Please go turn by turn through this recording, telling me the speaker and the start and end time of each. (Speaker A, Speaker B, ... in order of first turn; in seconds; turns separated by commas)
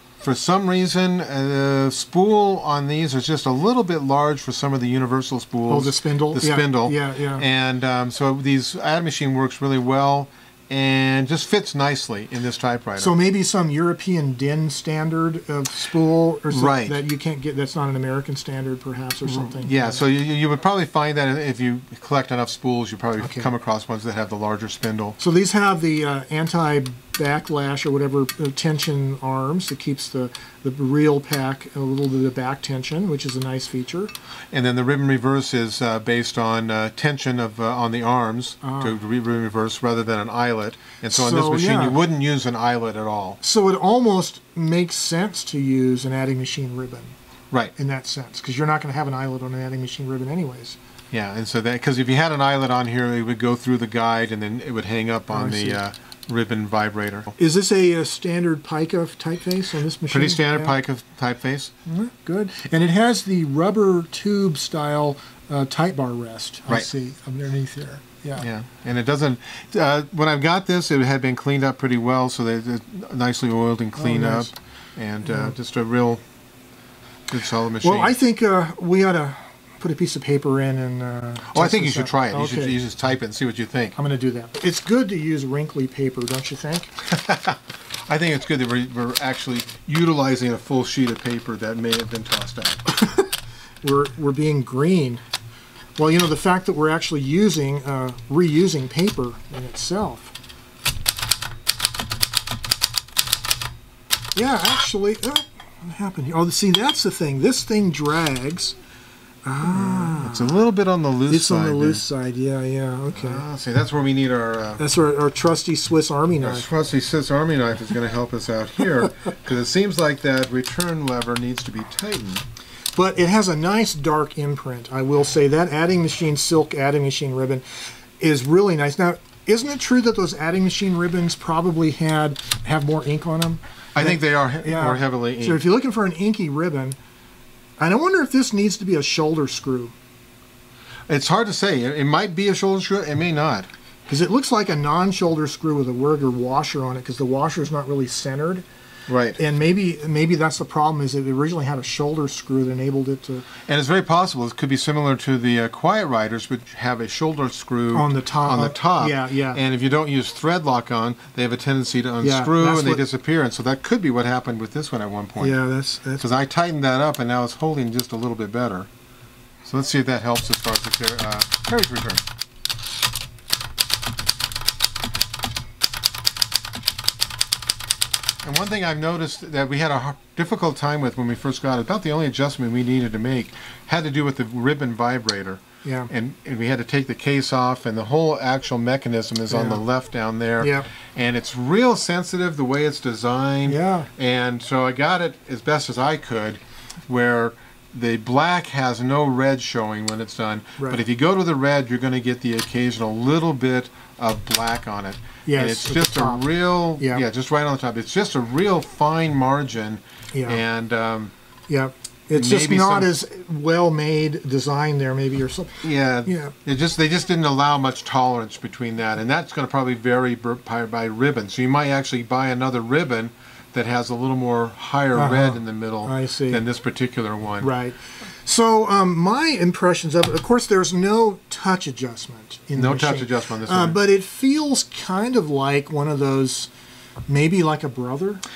Speaker A: 0.2-13.2, Speaker B: 5.7-7.4, Speaker B: 13.0-20.0, Speaker A: 16.5-17.0, Speaker A: 19.2-25.2, Speaker B: 23.2-23.5, Speaker B: 25.2-34.1, Speaker A: 34.5-43.4, Speaker B: 38.6-38.9, Speaker B: 41.1-42.0, Speaker B: 43.4-47.1, Speaker B: 47.8-50.8, Speaker A: 51.1-57.4, Speaker B: 55.3-55.8, Speaker B: 57.4-60.7, Speaker A: 60.1-61.7, Speaker B: 61.9-68.5, Speaker A: 68.4-76.2, Speaker B: 74.0-74.5, Speaker B: 75.3-75.5, Speaker A: 77.3-78.2, Speaker B: 77.8-82.8, Speaker A: 81.5-84.0, Speaker B: 84.0-87.0, Speaker A: 87.1-92.8, Speaker B: 92.9-95.2, Speaker B: 96.0-100.3, Speaker B: 104.3-108.8, Speaker B: 109.4-110.6, Speaker A: 109.6-112.0, Speaker B: 111.3-113.4, Speaker A: 113.1-114.8, Speaker B: 114.8-116.7, Speaker A: 116.4-122.5, Speaker B: 123.0-127.6, Speaker B: 128.2-137.0, Speaker A: 133.9-135.6, Speaker B: 137.8-139.9, Speaker A: 141.1-143.7, Speaker B: 144.1-148.7, Speaker A: 149.1-149.4, Speaker B: 149.4-153.5, Speaker A: 153.7-165.6, Speaker B: 157.9-159.6, Speaker B: 162.2-163.0, Speaker B: 165.4-166.3, Speaker A: 166.2-168.9, Speaker A: 169.6-172.2, Speaker A: 178.4-211.3, Speaker B: 185.8-186.1, Speaker B: 189.5-189.8, Speaker B: 190.6-190.9, Speaker B: 193.7-194.1, Speaker B: 205.5-206.4, Speaker B: 207.0-207.2, Speaker B: 210.3-210.6, Speaker B: 211.7-216.5, Speaker A: 212.3-213.1, Speaker A: 215.8-227.7, Speaker B: 225.2-226.6, Speaker B: 227.6-236.7, Speaker A: 232.8-234.0, Speaker B: 237.3-238.4